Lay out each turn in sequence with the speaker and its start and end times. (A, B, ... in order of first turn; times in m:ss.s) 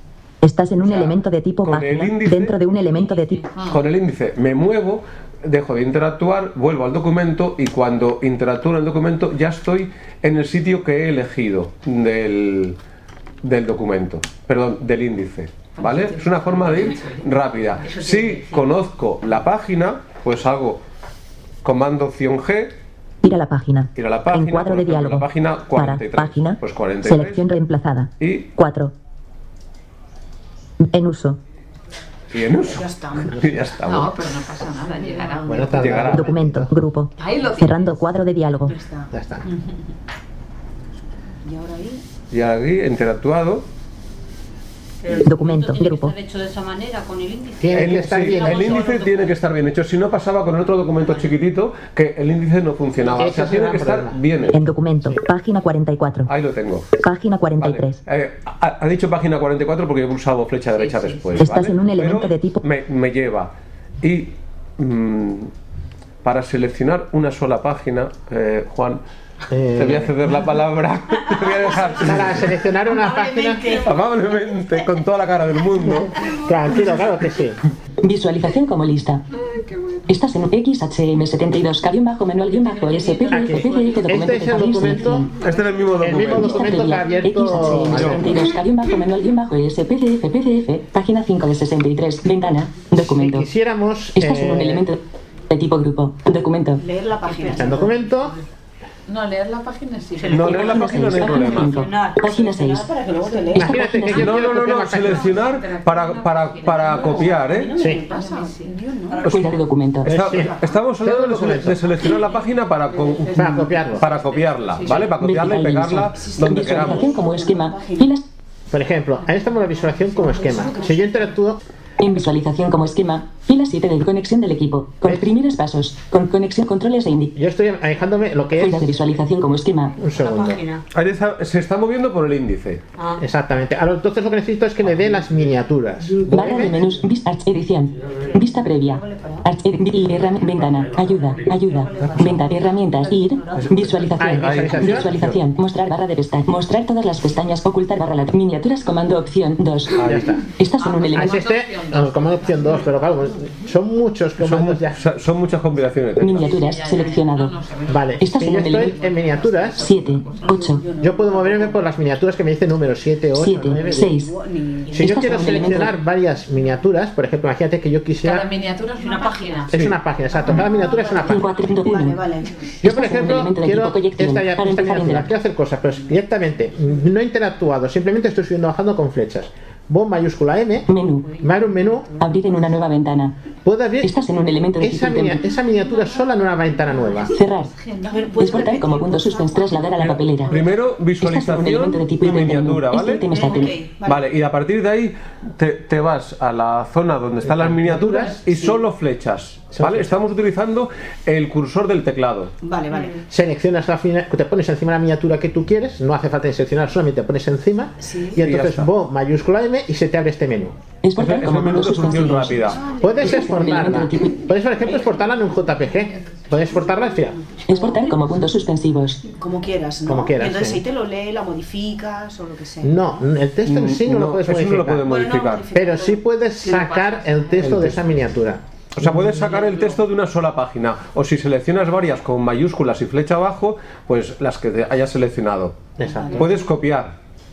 0:00.4-0:03.4 A
0:00.8-0:02.6 B
0:02.9-0:03.4 C
0:03.5-0:03.8 D
0:03.7-0:12.8 B
0:13.4-0:20.8 B
0:15.8-0:17.3 D
0:17.8-0:18.4 D
0:18.1-0:18.6 C
0:21.6-0:22.8 B
0:23.2-0:28.9 A
0:24.0-0:27.4 B
0:28.2-0:28.5 B
0:30.8-0:31.4 A
0:32.3-0:34.2 B
0:32.6-0:33.5 E
0:33.8-0:35.9 D
0:35.5-0:36.7 F
0:35.7-0:36.3 B
0:36.0-0:38.8 A
0:38.7-0:39.1 E
0:39.1-0:39.5 F
0:41.4-0:42.0 E
0:42.3-0:43.6 B
0:45.0-0:49.4 C
0:45.2-0:46.2 A
0:47.6-0:48.9 F
0:47.7-0:54.6 B
0:53.2-0:54.2 F
0:54.5-0:56.3 A
0:56.3-0:56.9 B
0:57.0-0:58.0 A
0:57.6-1:05.5 B
1:00.8-1:01.4 D
1:01.4-1:02.6 A
1:06.2-1:09.0 B
1:09.5-1:10.2 F
1:09.8-1:12.5 B
1:11.5-1:11.8 C
1:12.0-1:13.7 F
1:13.0-1:13.8 C
1:13.0-1:13.9 E
1:13.8-1:16.2 B
1:15.8-1:17.6 F
1:18.0-1:19.2 G
1:20.1-1:25.3 G
1:22.5-1:24.9 E
1:23.3-1:25.3 F
1:25.3-1:26.9 B
1:26.0-1:28.4 F
1:26.2-1:33.5 G
1:27.8-1:28.3 B
1:32.9-1:34.9 F
1:34.2-1:36.8 G
1:36.8-1:38.2 E
1:37.3-1:37.6 C
1:37.5-1:38.4 F
1:39.1-1:41.6 D
1:40.2-1:42.6 C
1:40.3-1:41.8 B
1:40.4-1:42.9 G
1:42.2-1:43.9 E
1:43.2-1:43.4 C
1:43.5-1:44.4 G
1:43.5-1:45.4 F
1:44.1-1:47.8 B
1:44.9-1:48.8 D
1:46.8-1:49.6 E
1:47.8-1:48.0 F
1:49.2-1:50.1 G
1:50.0-1:51.9 F
1:50.1-1:57.1 B
1:50.3-1:50.8 E
1:52.9-1:55.2 D
1:53.3-1:54.1 F
1:55.2-1:58.3 G
1:56.1-1:58.1 E
1:58.7-2:01.6 F
2:00.0-2:01.3 E
2:02.0-2:07.3 G
2:05.0-2:05.3 F
2:07.4-2:09.0 F
2:08.6-2:10.0 G
2:10.0-2:10.6 F
2:10.1-2:10.8 C
2:10.9-2:12.8 B
2:13.2-2:16.8 F
2:16.3-2:30.0 G
2:18.9-2:19.5 E
2:21.5-2:24.2 C
2:23.6-2:25.4 B
2:24.2-2:25.2 F
2:30.0-2:30.3 B
2:30.0-2:30.4 F
2:30.6-2:31.4 G
2:30.8-2:33.0 D
2:31.1-2:35.0 F
2:34.4-2:36.6 B
2:36.2-2:37.6 G
2:36.3-2:40.8 D
2:37.9-2:39.9 F
2:38.2-2:39.0 G
2:39.8-2:40.8 G
2:40.5-2:41.8 E
2:41.0-2:44.1 F
2:43.4-2:44.3 G
2:43.6-2:45.9 E
2:44.9-2:48.5 F
2:45.0-2:46.0 G
2:48.2-2:49.7 D
2:49.0-2:49.7 C
2:49.7-2:51.5 F
2:50.4-2:52.8 E
2:51.3-2:52.2 G
2:52.8-2:55.3 G
2:52.8-3:02.1 F
3:00.9-3:01.3 G
3:01.2-3:01.9 C
3:02.2-3:03.3 G
3:03.6-3:04.2 F
3:04.0-3:05.5 G
3:04.8-3:07.4 F
3:06.9-3:07.3 E
3:07.3-3:07.7 G
3:07.8-3:09.0 C
3:08.0-3:10.6 E
3:08.4-3:10.6 G
3:10.1-3:13.3 B
3:11.2-3:13.7 G
3:13.3-3:14.3 E
3:14.0-3:22.5 B
3:17.4-3:18.7 F
3:19.7-3:20.1 F
3:22.6-3:23.2 E
3:23.3-3:30.8 F
3:28.0-3:28.4 E
3:28.4-3:28.9 B
3:31.0-3:34.4 G
3:31.2-3:32.8 B
3:32.0-3:34.1 E
3:33.0-3:37.4 F
3:34.8-3:35.2 E
3:37.7-3:39.2 G
3:37.7-3:38.1 E
3:39.3-3:43.1 E
3:40.1-3:40.8 F
3:42.8-3:45.2 F
3:43.6-3:45.7 B
3:45.0-3:46.2 E
3:45.7-3:49.3 F
3:46.6-3:47.6 D
3:47.6-3:48.0 B
3:49.0-3:55.8 B
3:56.0-3:56.5 F
3:56.0-3:56.6 E
3:56.4-3:57.2 B